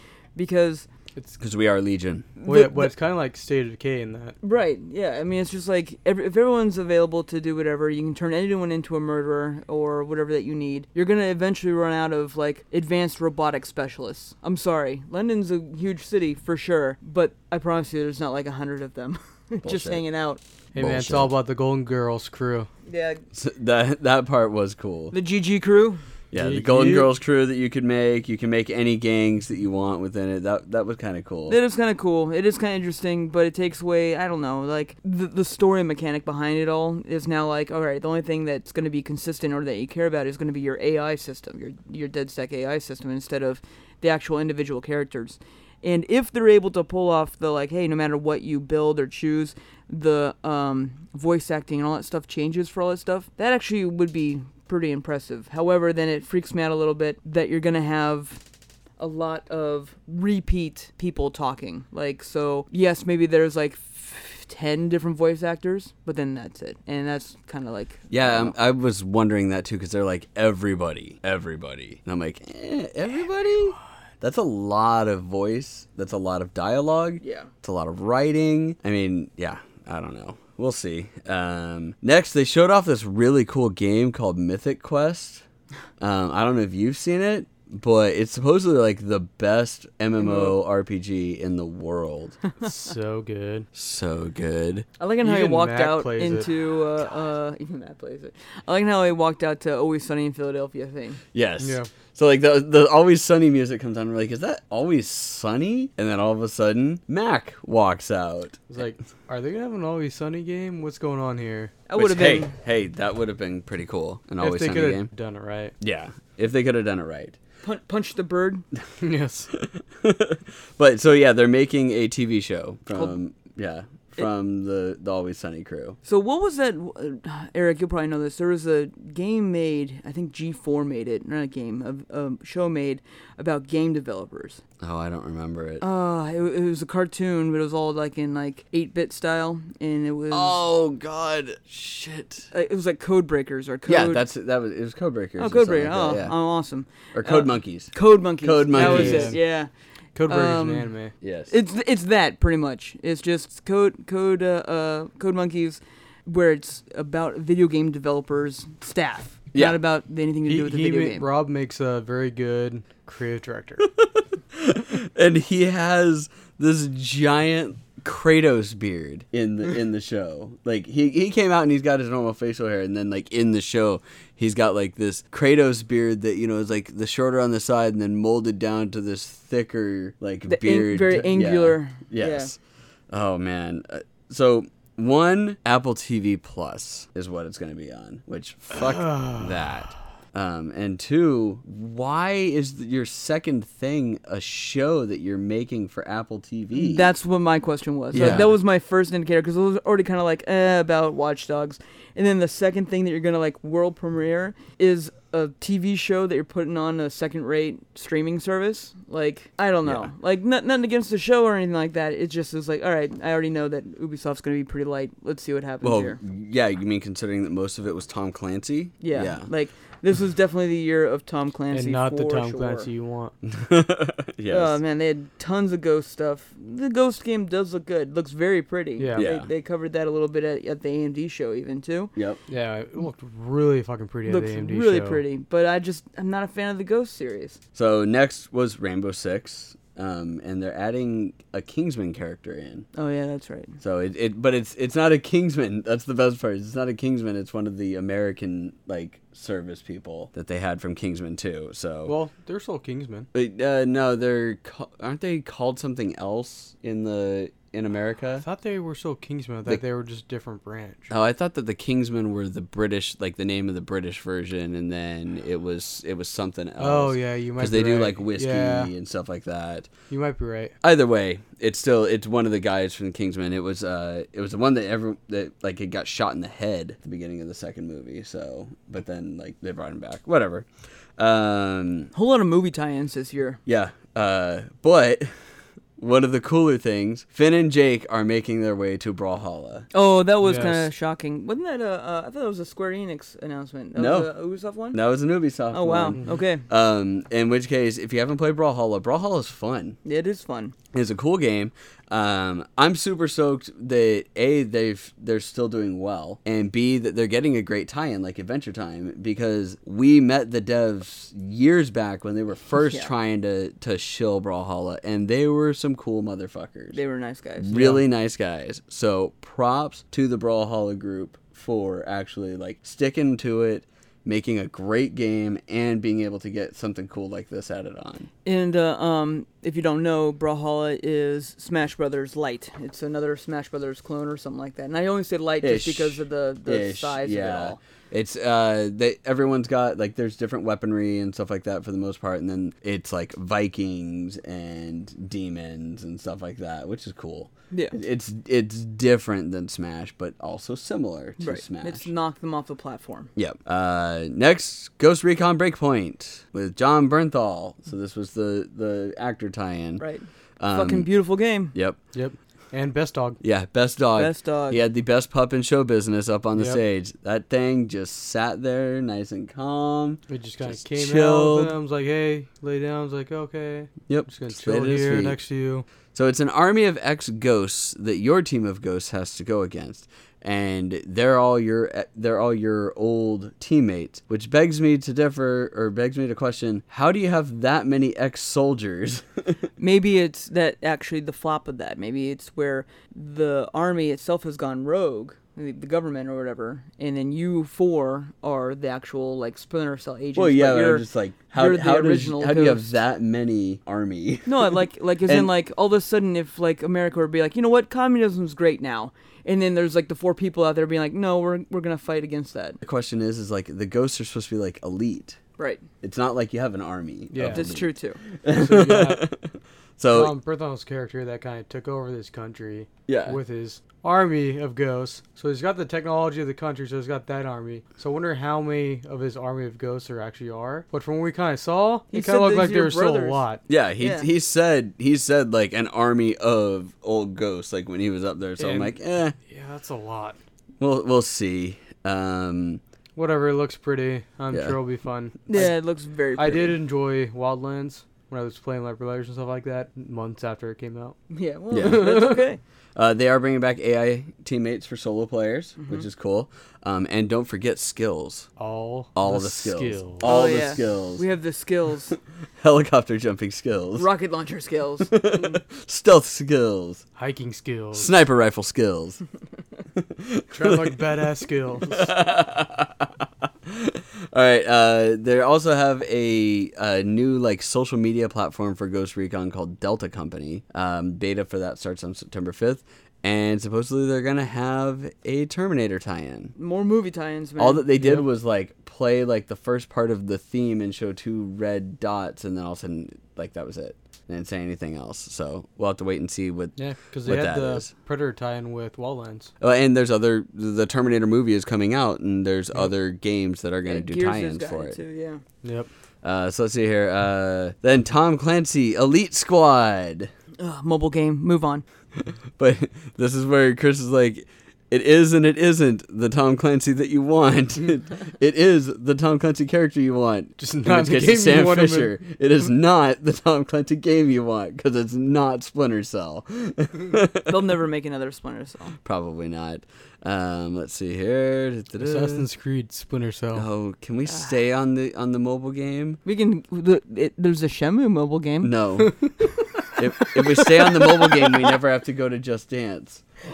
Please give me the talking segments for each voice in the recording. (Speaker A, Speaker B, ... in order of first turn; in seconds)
Speaker A: 0.3-0.9, 2.4-2.9, 4.4-20.4, 22.9-23.2, 25.1-26.0, 31.5-58.4, 59.0-68.5, 77.2-77.5, 90.2-90.5, 95.0-101.2, 111.9-112.5, 117.6-118.6, 126.0-134.6, 135.8-140.6, 142.5-144.2, 145.4-149.7, 150.3-150.9, 151.5-161.3, 180.5-182.5, 196.7-216.2, 219.0-222.9, 224.5-232.1, 234.3-237.6, 242.9-243.8, 282.1-283.6, 289.9-295.0, 295.7-296.6, 300.0-300.7, 312.8-313.1, 316.9-317.8, 328.4-337.8, 351.4-353.3, 360.0-361.7, 364.1-364.8, 389.8-402.9, 404.4-412.8, 415.6-415.8, 417.5-418.2, 432.1-433.4, 434.0-434.3, 445.5-446.8, 451.3-452.6, 455.8-456.1, 460.2-462.2, 463.9-465.1, 486.6-487.9, 503.8-505.4, 510.6-511.8, 527.5-529.0, 536.2-538.7
Speaker B: 1.4-2.3, 19.6-20.0, 20.8-21.3, 23.3-25.1, 26.3-31.6, 68.1-85.4, 86.0-92.4, 93.7-94.9, 101.3-108.6, 112.0-115.1, 115.8-117.4, 119.5-126.0, 134.8-135.8, 140.3-142.5, 143.9-146.3, 147.1-149.4, 151.2-151.5, 164.0-182.6, 183.1-197.1, 198.1-198.5, 209.8-210.1, 215.8-219.5, 223.4-224.8, 229.2-229.5, 237.7-242.9, 243.8-252.1, 253.3-258.4, 261.1-269.9, 270.8-282.1, 283.6-285.3, 286.0-289.9, 293.9-294.3, 294.9-300.0, 300.9-317.0, 317.6-328.3, 335.6-352.1, 353.4-360.0, 360.6-361.1, 363.4-371.8, 374.1-375.4, 376.1-389.6, 400.4-405.5, 412.8-415.4, 416.0-420.3, 423.1-423.4, 433.7-439.4, 440.8-442.8, 444.5-444.8, 451.7-452.2, 452.9-458.5, 459.1-461.2, 462.6-464.1, 465.1-467.0, 467.9-469.2, 469.9-471.1, 471.8-486.5, 487.6-497.9, 499.6-505.0, 506.2-510.3, 512.2-527.5, 529.0-532.5, 533.5-536.2, 538.6-539.2, 540.0-543.2
Speaker C: 2.4-4.4, 20.7-22.7, 26.3-27.1, 92.6-93.7, 95.2-96.5, 101.6-101.9, 108.7-111.8, 114.4-115.7, 119.0-119.5, 148.7-149.4, 150.1-151.1, 160.4-163.9, 188.8-189.7, 198.1-198.5, 221.7-223.3, 229.0-229.3, 232.5-235.2, 252.1-253.3, 258.4-261.1, 266.8-268.9, 270.1-270.7, 290.4-290.9, 317.7-318.0, 362.1-363.4, 370.3-375.8, 417.3-417.7, 418.5-419.2, 420.1-433.6, 438.6-438.9, 439.5-440.4, 443.1-445.7, 446.4-451.2, 451.8-452.4, 458.6-460.4, 467.2-468.1, 470.5-472.1, 488.0-488.2, 496.8-499.5, 505.6-505.9, 520.6-522.1, 532.0-533.7, 539.0-539.3